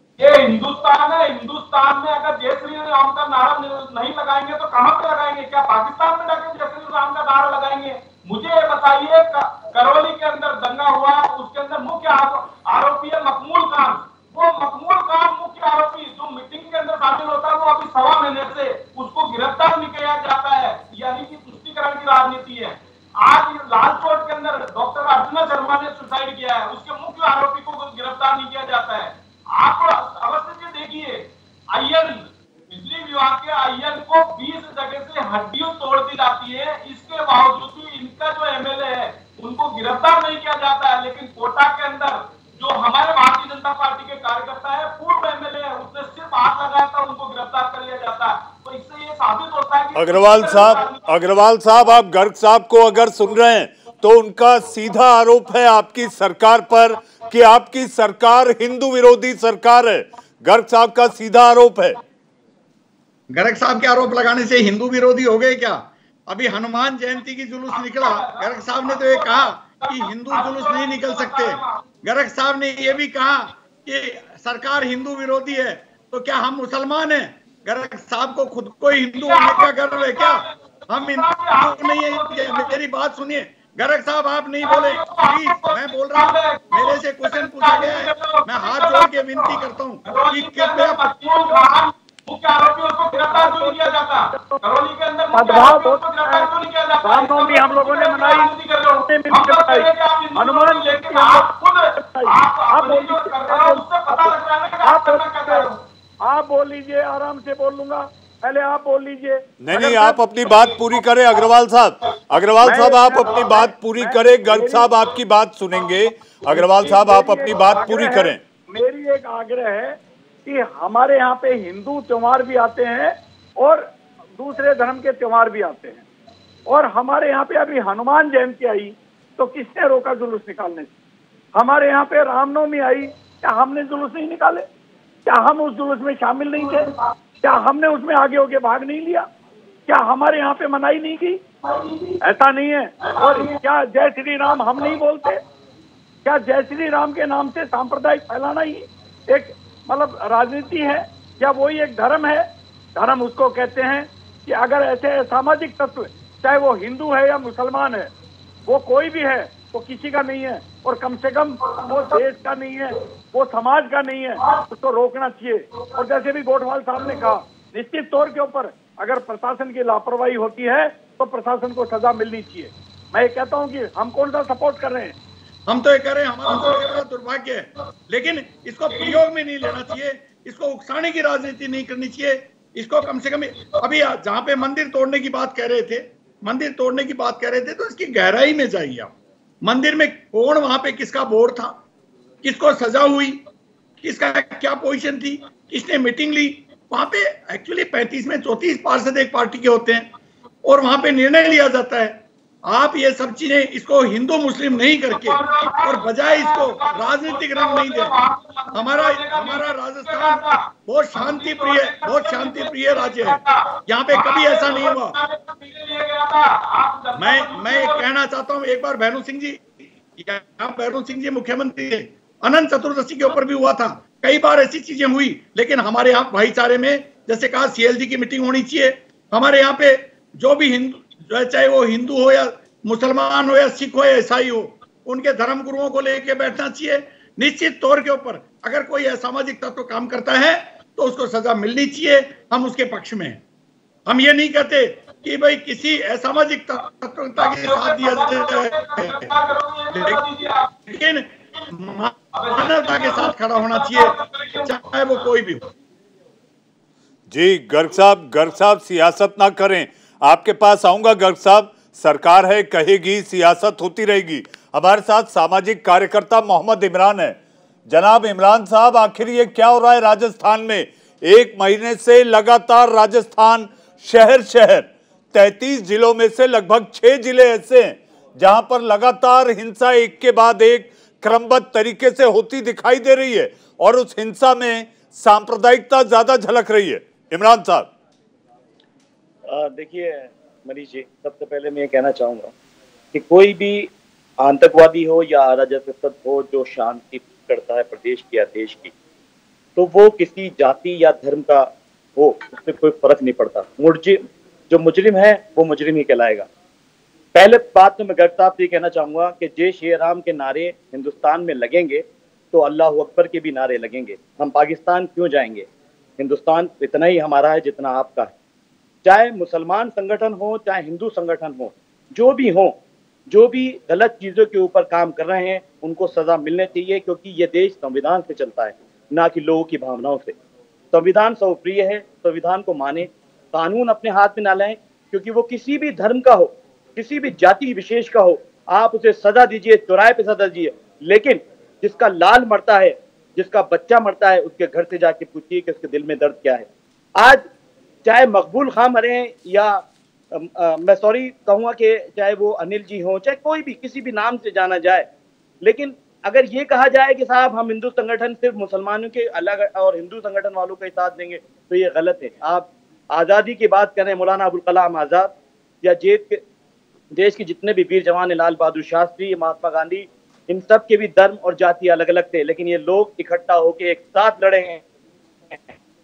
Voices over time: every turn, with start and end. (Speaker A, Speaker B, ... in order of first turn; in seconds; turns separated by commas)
Speaker A: 0.2-51.0, Speaker B: 50.0-62.0, Speaker C: 63.3-91.2, Speaker A: 67.7-71.8, Speaker A: 79.2-82.8, Speaker A: 84.6-105.8, Speaker D: 93.2-94.6, Speaker D: 95.3-96.5, Speaker D: 97.0-105.7, Speaker D: 106.2-110.2, Speaker B: 109.6-118.4, Speaker D: 112.6-115.0, Speaker D: 116.4-126.1, Speaker D: 126.7-130.9, Speaker D: 131.6-134.7, Speaker D: 135.3-136.9, Speaker D: 137.4-139.3, Speaker D: 139.9-141.4, Speaker D: 142.2-145.4, Speaker A: 143.2-143.5, Speaker D: 146.2-158.1, Speaker D: 158.7-175.2, Speaker C: 175.7-189.1, Speaker A: 176.5-176.9, Speaker C: 189.6-191.8, Speaker C: 192.4-193.4, Speaker C: 194.0-200.1, Speaker C: 200.7-208.1, Speaker A: 205.1-218.1, Speaker C: 208.7-215.2, Speaker C: 217.2-243.4, Speaker C: 244.1-249.3, Speaker A: 247.4-250.7, Speaker C: 249.9-250.2, Speaker C: 250.9-255.6, Speaker A: 252.3-254.8, Speaker B: 257.3-287.9, Speaker E: 289.5-292.5, Speaker E: 293.1-298.9, Speaker E: 299.8-306.5, Speaker E: 307.3-318.3, Speaker E: 319.1-322.8, Speaker E: 323.3-330.4, Speaker E: 330.9-347.5, Speaker E: 348.1-355.1, Speaker E: 355.6-366.4, Speaker E: 367.1-374.8